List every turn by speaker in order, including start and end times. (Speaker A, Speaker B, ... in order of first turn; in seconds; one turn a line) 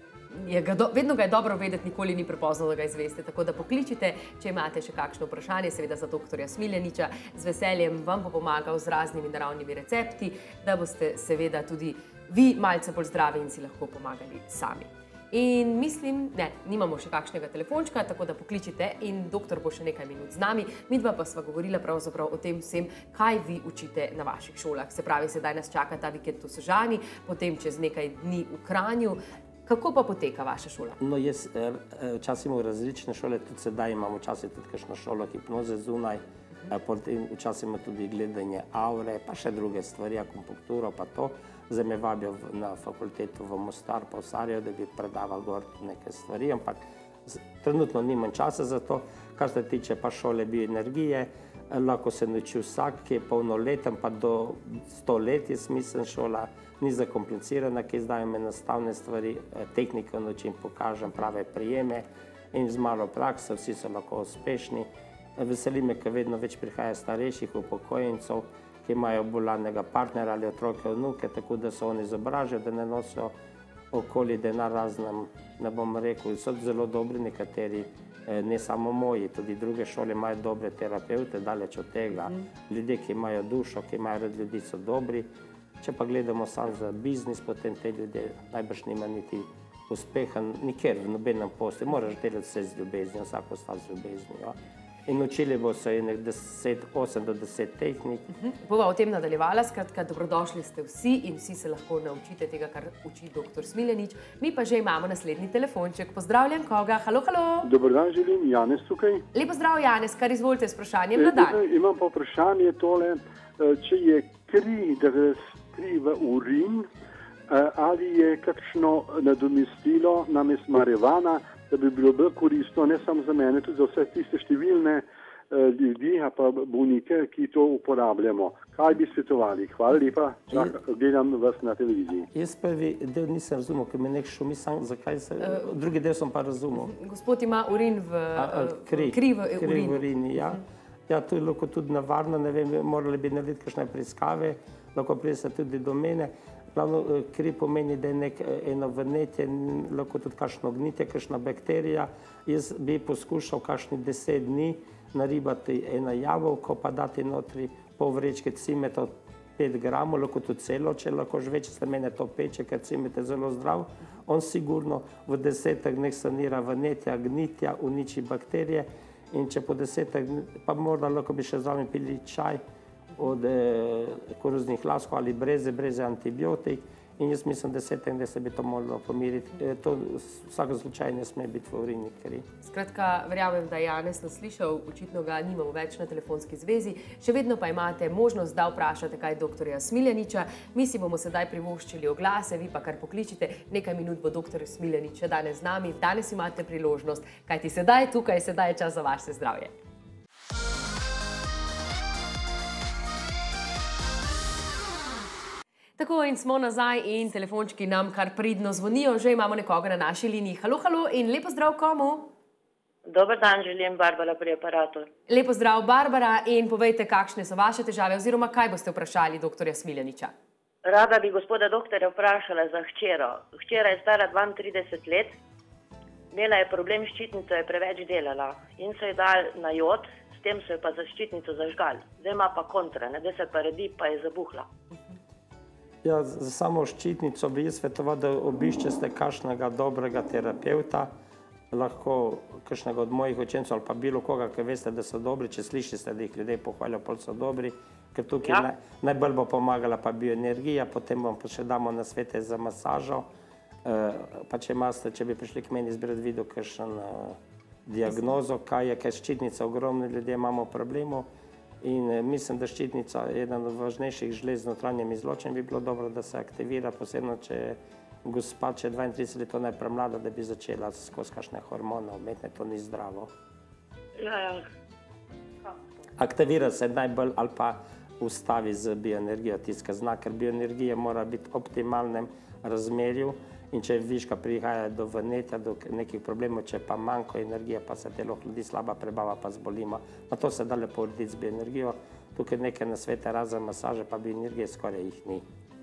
Speaker A: 0.3-31.0
Speaker B: 31.0-73.3
Speaker B: 73.9-85.3
Speaker B: 85.8-94.6
Speaker B: 95.1-98.3
Speaker A: 98.3-107.7
Speaker C: 107.7-109.3
Speaker A: 109.3-111.6
Speaker C: 111.2-116.9
Speaker C: 117.5-132.3
Speaker B: 132.3-136.9
Speaker A: 135.4-135.7
Speaker A: 136.8-140.6
Speaker B: 138.4-172.6
Speaker B: 173.2-182.5
Speaker A: 182.6-199.7
Speaker A: 206.0-212.3
Speaker D: 213.1-215.1
Speaker A: 215.3-220.3
Speaker D: 220.9-225.3
Speaker D: 226.3-234.7
Speaker B: 236.0-241.1
Speaker B: 241.7-253.3
Speaker B: 253.8-261.3
Speaker B: 261.8-273.3
Speaker D: 274.2-274.6
Speaker B: 276.2-295.4